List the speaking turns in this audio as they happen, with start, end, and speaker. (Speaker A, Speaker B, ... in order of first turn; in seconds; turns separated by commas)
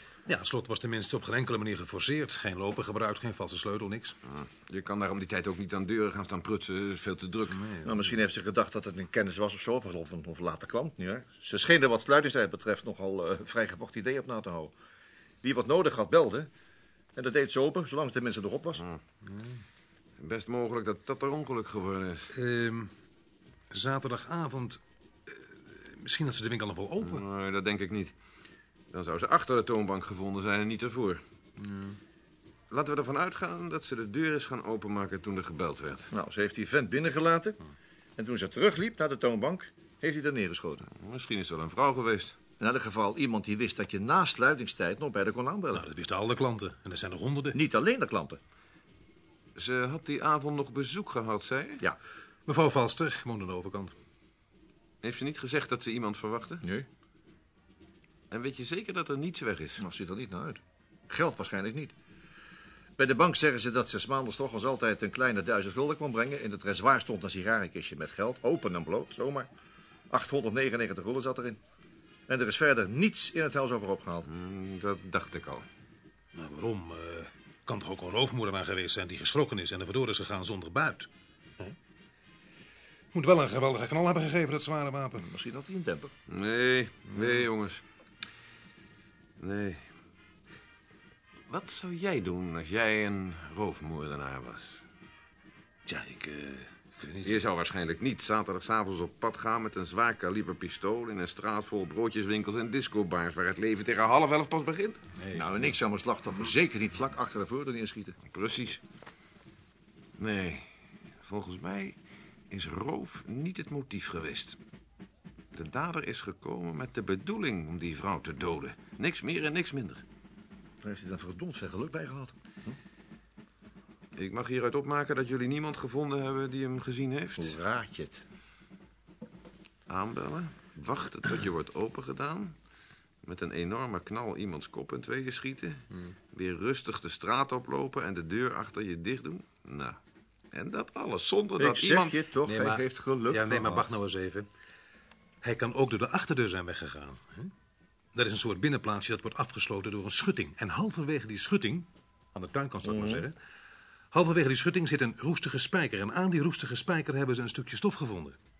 Speaker A: 0.3-4.2, Speaker B: 4.2-7.6, Speaker A: 7.5-8.2, Speaker C: 7.8-14.7, Speaker C: 15.4-16.5, Speaker C: 17.1-18.8, Speaker A: 19.2-19.6, Speaker B: 20.2-22.3, Speaker A: 22.3-22.9, Speaker A: 23.7-27.2, Speaker B: 27.0-28.1, Speaker B: 28.9-31.2, Speaker A: 31.6-32.0, Speaker B: 32.7-36.1, Speaker C: 36.1-37.6, Speaker C: 38.2-40.9, Speaker B: 40.9-42.4, Speaker C: 42.6-45.9, Speaker A: 45.7-47.6, Speaker C: 47.5-48.4, Speaker B: 49.5-51.8, Speaker A: 52.5-54.0, Speaker B: 55.0-56.6, Speaker B: 58.3-59.8, Speaker C: 59.8-61.9, Speaker C: 63.0-69.5, Speaker C: 70.1-71.6, Speaker C: 72.3-74.3, Speaker B: 74.2-75.7, Speaker A: 76.3-81.8, Speaker A: 83.1-85.2, Speaker C: 85.2-86.1, Speaker B: 86.3-87.8, Speaker A: 87.1-87.4, Speaker B: 89.4-89.8, Speaker B: 91.5-94.8, Speaker A: 95.9-97.4, Speaker B: 97.2-105.0, Speaker A: 105.2-105.7, Speaker C: 105.3-108.2, Speaker B: 108.3-108.8, Speaker B: 110.2-110.7, Speaker B: 111.2-112.0, Speaker B: 112.5-114.6, Speaker B: 115.5-120.0, Speaker C: 120.8-122.8, Speaker B: 124.2-127.6, Speaker C: 127.4-128.2, Speaker B: 129.9-132.6, Speaker B: 133.2-140.0, Speaker B: 140.5-142.2, Speaker C: 141.6-143.9, Speaker A: 142.4-144.5, Speaker A: 145.4-147.5, Speaker A: 148.1-153.3, Speaker C: 152.8-153.2, Speaker A: 154.1-158.4